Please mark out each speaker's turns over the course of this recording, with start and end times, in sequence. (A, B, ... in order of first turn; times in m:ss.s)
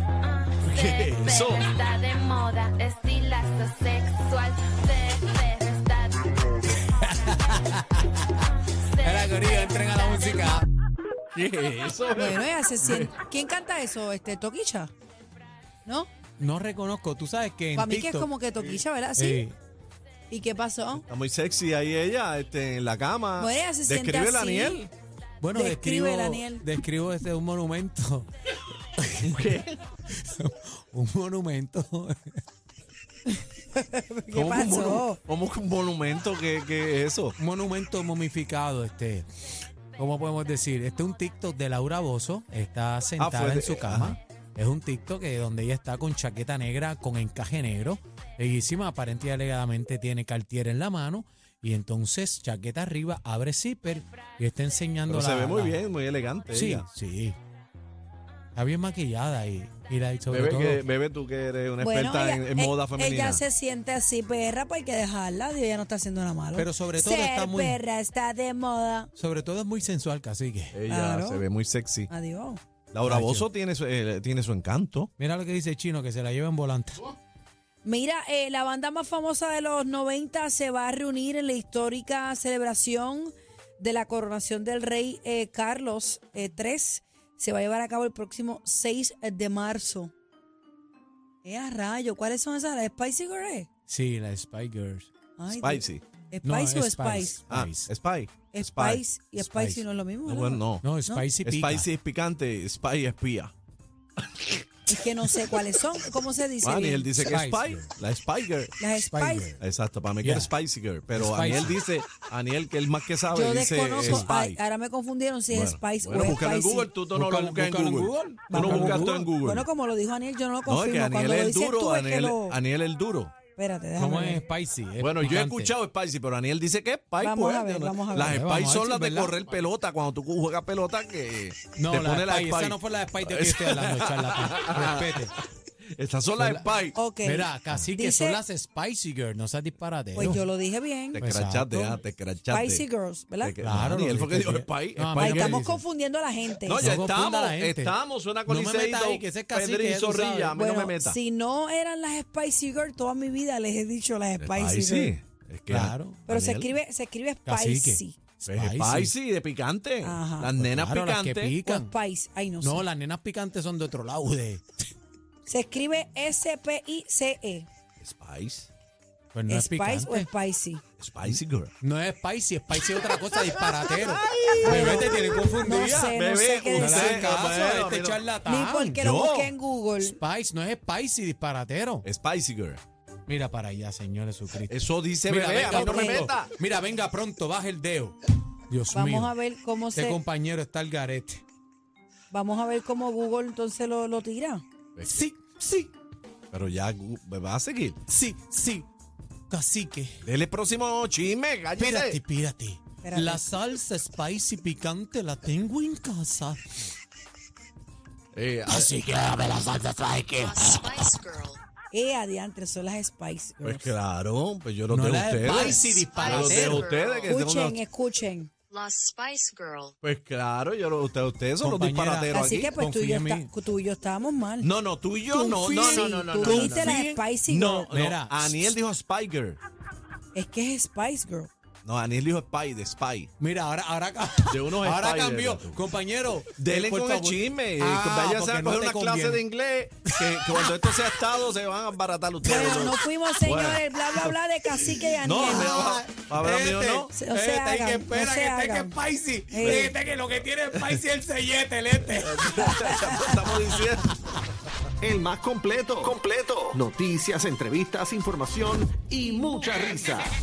0:00.6-0:01.7 A
0:00.7-0:06.3 B
0:06.7-0:08.4 C
0:09.0-0:10.7 C
0:09.0-0:10.3 B
0:11.3-0:13.1 A
0:12.2-0:14.9 D
0:16.4-0:18.3 C
0:17.8-0:19.4 D
0:19.2-0:19.6 C
0:20.3-0:21.0 D
0:21.1-0:24.8 A
0:23.4-0:24.9 D
0:25.4-0:28.3 C
0:25.5-0:26.6 D
0:29.0-0:29.4 C
0:29.2-0:29.8 A
0:30.1-0:32.2 C
0:33.7-0:35.2 D
0:34.3-0:37.4 A
0:37.4-0:39.3 C
0:40.0-0:55.8 C
0:43.2-0:44.2 A
0:55.1-0:56.9 A
0:56.5-0:57.4 C
0:58.6-1:00.9 C
1:00.3-1:03.4 A
1:01.8-1:09.1 D
1:06.5-1:07.8 C
1:09.2-1:10.8 C
1:10.7-1:12.1 A
1:10.9-1:11.4 D
1:12.1-1:12.6 D
1:12.9-1:15.1 A
1:13.0-1:13.5 C
1:15.2-1:17.1 C
1:17.8-1:30.1 D
1:31.4-1:33.7 D
1:33.9-1:35.1 C
1:35.4-1:37.4 D
1:35.5-1:36.0 A
1:36.4-1:37.9 C
1:37.5-1:40.9 A
1:38.5-1:41.3 D
1:40.8-1:41.9 C
1:41.4-1:43.5 A
1:44.9-1:47.1 D
1:46.6-1:48.8 A
1:47.2-1:47.9 C
1:48.8-1:49.5 D
1:49.1-1:49.6 C
1:49.6-1:54.6 A
1:50.2-1:50.5 C
1:51.1-1:51.8 C
1:53.3-1:56.9 D
1:54.0-1:54.3 C
1:55.5-1:59.7 A
1:57.1-1:59.3 C
1:58.5-2:02.6 D
2:00.7-2:03.3 A
2:03.6-2:04.4 D
2:04.0-2:05.7 C
2:05.0-2:15.3 A
2:07.2-2:08.4 D
2:08.2-2:09.4 C
2:11.8-2:15.4 C
2:15.9-2:17.0 A
2:16.4-2:16.7 C
2:17.0-2:18.4 D
2:17.2-2:20.5 C
2:20.2-2:21.2 D
2:21.1-2:22.9 A
2:21.2-2:22.0 C
2:22.5-2:23.5 D
2:23.4-2:25.6 A
2:23.6-2:25.8 C
2:25.2-2:26.8 D
2:26.6-2:31.2 A
2:26.8-2:30.6 C
2:30.6-2:35.2 D
2:34.4-2:36.7 A
2:35.7-2:36.2 C
2:36.3-2:38.2 D
2:37.5-2:39.1 C
2:38.5-2:41.5 A
2:40.0-2:40.5 D
2:40.6-2:41.9 C
2:41.6-2:42.8 D
2:42.6-2:44.6 C
2:45.5-2:47.7 D
2:48.0-2:48.7 A
2:49.3-2:50.3 C
2:49.5-2:50.8 D
2:51.0-2:51.7 A
2:51.2-2:56.1 C
2:53.9-2:58.2 A
2:54.6-2:57.4 D
2:56.7-2:59.0 C
2:58.5-3:00.2 D
2:59.0-2:59.5 A
3:00.0-3:02.1 C
3:02.0-3:02.8 A
3:03.3-3:09.3 C
3:04.7-3:06.5 A
3:05.6-3:06.3 D
3:08.9-3:10.2 D
3:09.9-3:11.4 C
3:12.3-3:14.6 D
3:15.0-3:15.3 A
3:15.0-3:15.9 C
3:16.5-3:18.0 A
3:18.1-3:18.9 C
3:19.5-3:20.2 C
3:20.2-3:22.2 A
3:21.8-3:26.6 C
3:23.0-3:23.5 D
3:28.3-3:29.0 A
3:28.7-3:31.2 C
3:30.5-3:31.6 B
3:31.9-3:33.9 D
3:33.6-3:37.8 A
3:34.9-3:36.9 C
3:36.2-3:37.3 B
3:37.3-3:38.5 D
3:38.7-3:39.9 B
3:40.0-3:42.7 A
3:41.6-3:43.5 C
3:42.3-3:44.7 D
3:44.6-3:49.6 A
3:45.3-3:47.2 C
3:45.7-3:47.9 D
3:47.9-3:48.7 C
3:50.3-3:51.5 D
3:51.8-3:53.3 A
3:53.4-3:59.4 C
3:54.5-3:55.9 A
3:56.6-4:03.8 A
4:00.1-4:00.8 C
4:02.4-4:05.8 D
4:04.8-4:13.2 C
4:05.2-4:07.1 A
4:07.1-4:09.0 D
4:09.5-4:10.0 D
4:09.6-4:11.0 A
4:12.1-4:14.1 A
4:12.6-4:13.3 D
4:15.1-4:20.3 E